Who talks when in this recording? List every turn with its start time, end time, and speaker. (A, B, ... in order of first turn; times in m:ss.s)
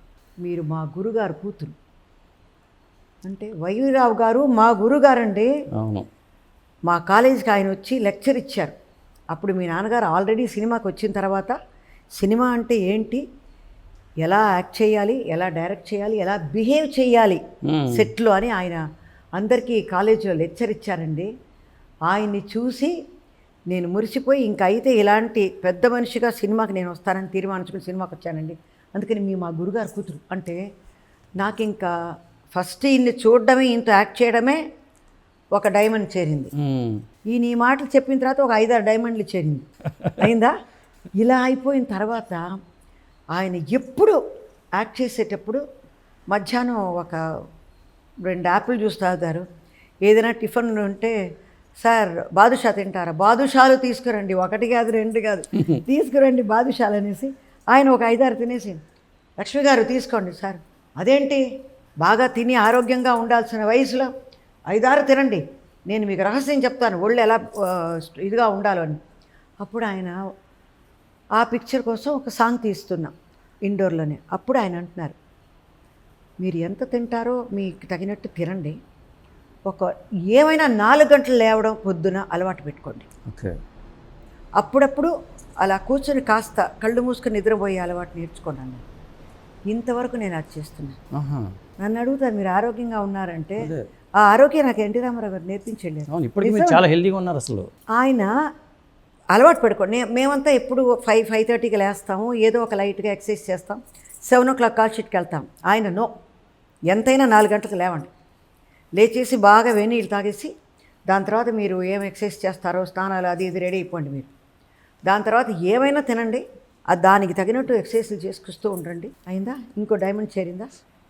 0:00.4-0:01.8 A
0:03.2-0:05.5 A
0:05.8-0:06.1 B
0:06.9-0:08.7 A
0:09.3-0:11.6 A
0:12.2-0:13.2 A
0:14.2-0:17.4 A
0:17.6-0:18.1 B
0:17.9-0:18.8 A
0:19.4-0:21.3 A
0:22.1-0:23.0 A
0:23.7-0:30.6 A
0:31.4-0:31.9 A
0:32.6-0:34.6 A
0:35.5-0:36.5 A
0:36.6-0:37.0 B
0:37.3-0:39.6 A
0:40.2-0:40.6 A
0:41.2-0:42.4 A
0:43.4-0:44.2 A
0:44.8-0:45.6 A
0:46.3-0:47.2 A
0:48.2-0:49.4 A
0:50.0-0:51.2 A
0:51.8-0:58.8 A
0:59.4-1:01.4 A
1:02.0-1:04.1 A
1:04.7-1:09.0 A
1:09.6-1:10.2 A
1:11.4-1:13.1 A
1:13.6-1:15.2 A
1:16.4-1:18.8 A
1:19.7-1:23.1 A
1:23.3-1:23.6 B
1:24.6-1:28.8 A
1:29.7-1:31.0 A
1:31.1-1:31.5 B
1:31.8-1:33.7 A
1:34.2-1:36.8 A
1:36.1-1:37.7 B
1:38.0-1:38.3 A
1:39.3-1:46.1 A
1:46.9-1:48.1 A
1:49.0-1:50.5 A
1:51.1-1:54.3 A
1:55.1-2:00.8 A